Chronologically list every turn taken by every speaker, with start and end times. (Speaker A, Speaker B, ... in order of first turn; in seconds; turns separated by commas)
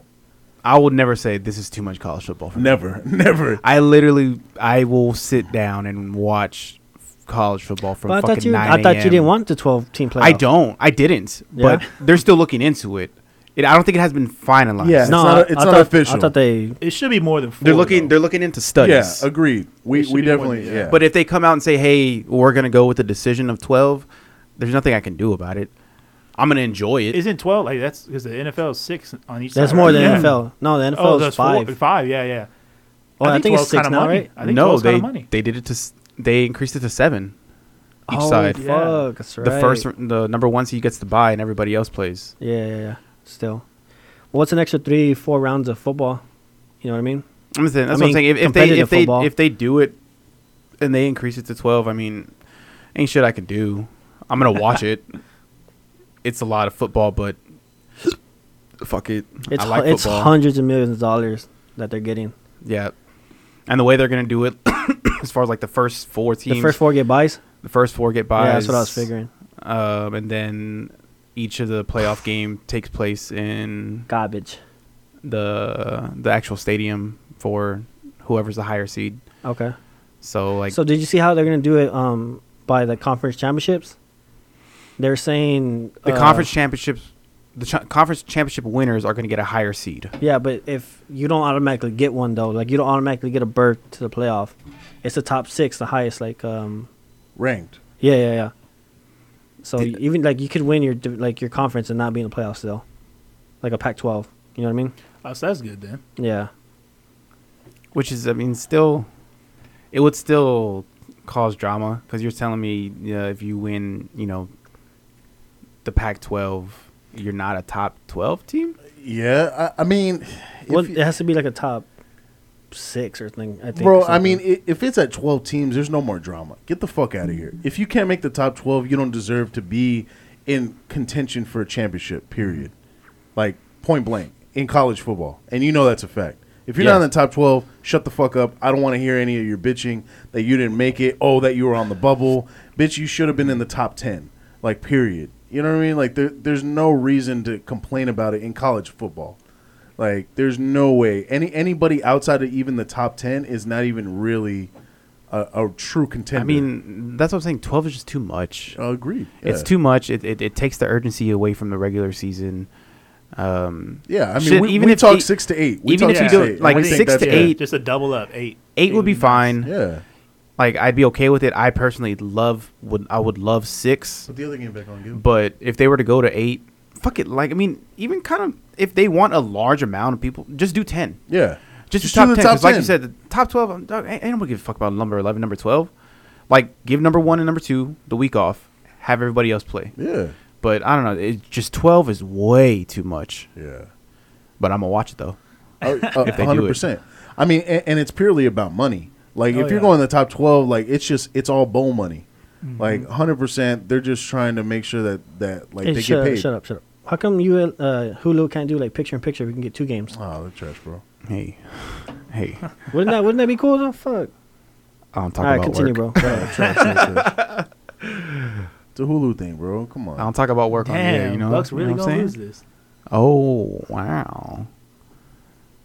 Speaker A: 0.6-2.8, Speaker B: 2.5-3.6, Speaker A: 3.6-9.3, Speaker C: 8.1-10.4, Speaker A: 10.2-15.2, Speaker C: 11.5-11.8, Speaker B: 14.8-16.3, Speaker C: 15.0-16.8, Speaker D: 16.8-18.1, Speaker A: 17.6-19.2, Speaker B: 18.8-21.0, Speaker D: 19.9-21.0, Speaker A: 20.9-24.1, Speaker A: 24.6-25.7, Speaker A: 26.4-27.2, Speaker D: 27.1-30.3, Speaker C: 29.5-31.7, Speaker A: 29.9-30.3, Speaker D: 30.9-32.5, Speaker C: 33.2-34.3, Speaker D: 33.2-35.3, Speaker A: 34.4-37.3, Speaker C: 38.1-39.9, Speaker A: 38.1-38.6, Speaker D: 38.5-39.0, Speaker A: 39.4-42.3, Speaker C: 42.4-43.6, Speaker C: 44.3-46.2, Speaker C: 46.8-47.2, Speaker A: 47.5-50.0, Speaker C: 47.9-49.3, Speaker A: 50.8-52.3, Speaker A: 52.9-55.1, Speaker A: 56.2-57.4, Speaker A: 58.8-60.3, Speaker C: 59.5-62.3, Speaker A: 62.6-62.9, Speaker A: 63.7-66.8, Speaker C: 66.5-67.4, Speaker A: 67.6-69.1, Speaker C: 68.3-69.3, Speaker A: 69.6-74.1, Speaker C: 74.1-74.6, Speaker A: 75.2-79.2, Speaker C: 79.4-79.7, Speaker A: 80.2-80.8, Speaker C: 80.7-83.9, Speaker C: 85.0-86.5, Speaker A: 86.0-90.1, Speaker C: 90.2-96.9, Speaker B: 97.3-97.8, Speaker C: 98.0-98.5, Speaker C: 99.6-102.8, Speaker C: 103.6-104.9, Speaker D: 105.2-106.0, Speaker C: 106.2-106.5, Speaker A: 107.9-109.1, Speaker A: 109.9-114.5, Speaker A: 115.8-118.8, Speaker B: 119.0-121.0, Speaker C: 120.7-121.8, Speaker C: 122.7-124.4, Speaker B: 123.7-132.7, Speaker B: 133.3-149.4, Speaker A: 136.8-137.0, Speaker B: 150.0-154.7, Speaker B: 155.3-156.7, Speaker A: 156.3-158.8, Speaker B: 158.7-159.7, Speaker A: 159.4-162.7, Speaker A: 163.3-165.3, Speaker B: 164.1-167.6, Speaker A: 165.8-167.6, Speaker D: 166.0-169.5, Speaker A: 168.7-169.7, Speaker B: 169.6-170.0, Speaker A: 170.6-174.3, Speaker B: 174.3-175.2, Speaker A: 175.1-181.2, Speaker B: 181.3-182.9, Speaker A: 181.9-185.9, Speaker A: 186.5-189.9, Speaker B: 190.0-190.3, Speaker A: 190.6-193.5, Speaker B: 193.6-193.9, Speaker A: 194.6-195.4, Speaker D: 195.8-196.4, Speaker B: 195.8-202.2, Speaker A: 196.2-196.8, Speaker D: 199.5-199.9, Speaker D: 202.6-203.1, Speaker B: 202.8-206.5, Speaker C: 205.8-210.1, Speaker B: 210.1-211.0, Speaker A: 211.3-212.8, Speaker C: 212.9-214.3, Speaker A: 215.1-217.6, Speaker C: 215.4-216.8, Speaker B: 216.2-217.3, Speaker D: 216.6-216.8, Speaker B: 218.9-220.3, Speaker A: 220.2-222.3, Speaker D: 220.8-222.6, Speaker A: 223.1-224.7